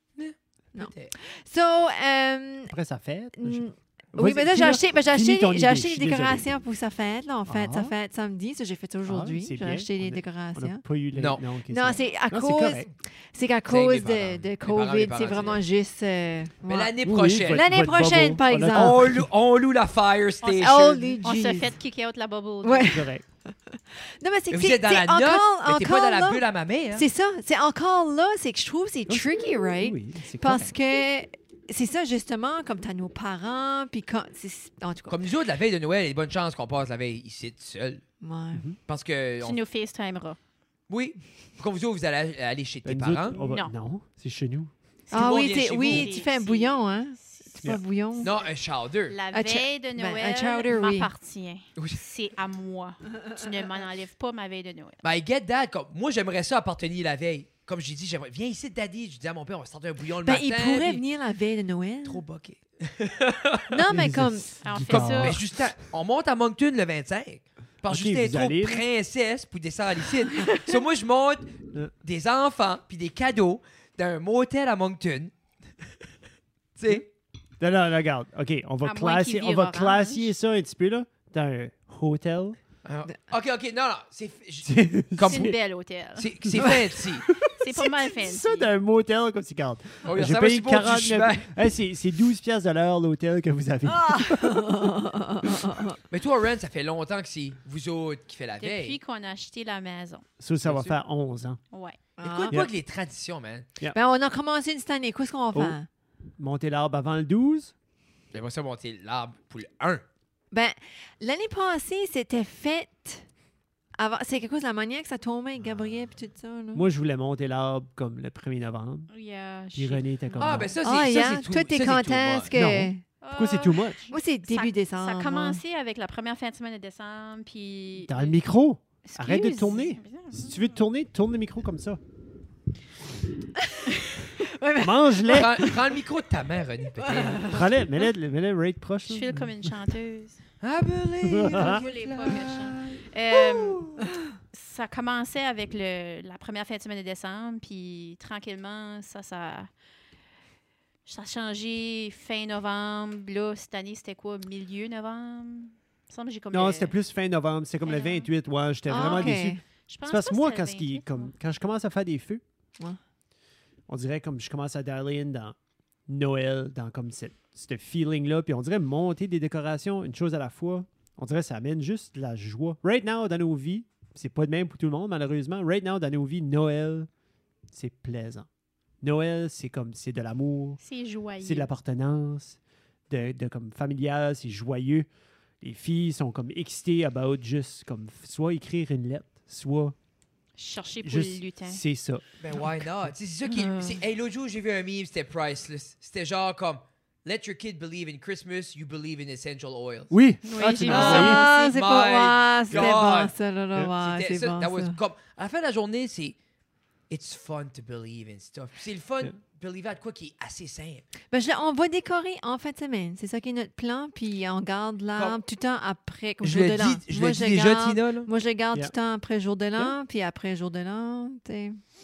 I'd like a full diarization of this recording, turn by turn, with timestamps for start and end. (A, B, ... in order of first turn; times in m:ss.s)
0:00.2-0:01.1 A
0:00.7-0:02.7 B
0:02.7-0:06.4 C
0:03.4-0:10.8 B
0:07.5-0:07.9 C
0:09.1-0:12.9 C
0:11.1-0:11.4 A
0:11.7-0:19.0 B
0:13.7-0:15.6 A
0:16.7-0:17.6 A
0:17.0-0:19.3 C
0:18.7-0:21.0 A
0:20.4-0:21.7 B
0:20.6-0:23.0 D
0:22.6-0:26.4 B
0:22.9-0:23.2 C
0:24.5-0:27.0 A
0:26.9-0:35.2 B
0:29.1-0:30.7 C
0:35.1-0:38.0 A
0:38.2-0:38.6 B
0:38.9-0:39.6 A
0:39.4-0:40.4 D
0:40.9-0:43.4 A
0:42.8-0:44.7 C
0:43.3-0:43.7 D
0:45.1-0:47.6 D
0:45.1-0:48.3 B
0:45.1-0:46.1 A
0:48.2-0:48.5 D
0:48.2-0:49.2 A
0:49.1-0:55.0 D
0:49.3-0:51.1 B
0:51.8-0:52.0 A
0:55.0-1:01.0 A
1:00.2-1:02.2 B
1:02.0-1:03.8 A
1:03.7-1:05.0 B
1:03.9-1:05.4 C
1:04.6-1:05.4 D
1:04.9-1:15.3 A
1:07.9-1:08.8 C
1:16.8-1:17.0 A
1:17.6-1:22.6 C
1:18.8-1:20.3 D
1:22.8-1:25.5 A
1:24.6-1:25.5 C
1:25.2-1:26.3 D
1:26.2-1:27.3 A
1:26.5-1:35.8 C
1:27.4-1:28.7 D
1:30.0-1:31.5 A
1:33.9-1:36.0 B
1:36.1-1:39.0 A
1:38.6-1:40.2 D
1:40.4-1:41.6 C
1:40.6-1:40.9 A
1:41.7-1:42.0 D
1:42.2-1:42.6 B
1:42.2-1:43.6 A
1:43.9-1:45.9 B
1:46.4-1:47.7 C
1:48.3-1:50.0 A
1:50.5-1:53.2 B
1:54.0-1:56.8 B
1:56.7-1:59.1 C
1:59.1-2:00.6 D
1:59.7-2:00.7 C
2:00.4-2:02.5 A
2:00.4-2:03.0 B
2:02.5-2:04.1 C
2:03.2-2:08.4 D
2:04.1-2:05.6 B
2:08.0-2:12.0 C
2:09.1-2:10.7 D
2:13.6-2:15.9 B
2:14.8-2:15.6 C
2:15.3-2:17.6 A
2:17.0-2:17.6 B
2:17.4-2:19.7 C
2:19.1-2:20.4 D
2:20.6-2:23.0 A
2:21.2-2:21.8 C
2:21.4-2:24.0 D
2:24.5-2:29.7 D
2:31.0-2:36.9 D
2:36.5-2:42.4 C
2:37.8-2:38.3 D
2:38.9-2:39.6 B
2:38.9-2:41.3 D
2:43.9-2:45.6 C
2:46.1-2:57.1 C
2:57.7-2:58.5 C
2:59.0-3:00.8 C
3:00.8-3:01.7 D
3:01.4-3:05.1 C
3:05.6-3:09.9 C
3:10.6-3:11.8 D
3:11.0-3:12.2 C
3:12.4-3:20.1 A
3:13.5-3:13.9 D
3:20.1-3:21.4 C
3:20.4-3:21.4 D
3:20.6-3:25.0 B
3:20.8-3:23.3 A
3:24.0-3:26.4 A
3:27.1-3:31.0 A
3:31.3-3:41.8 B
3:36.4-3:38.3 A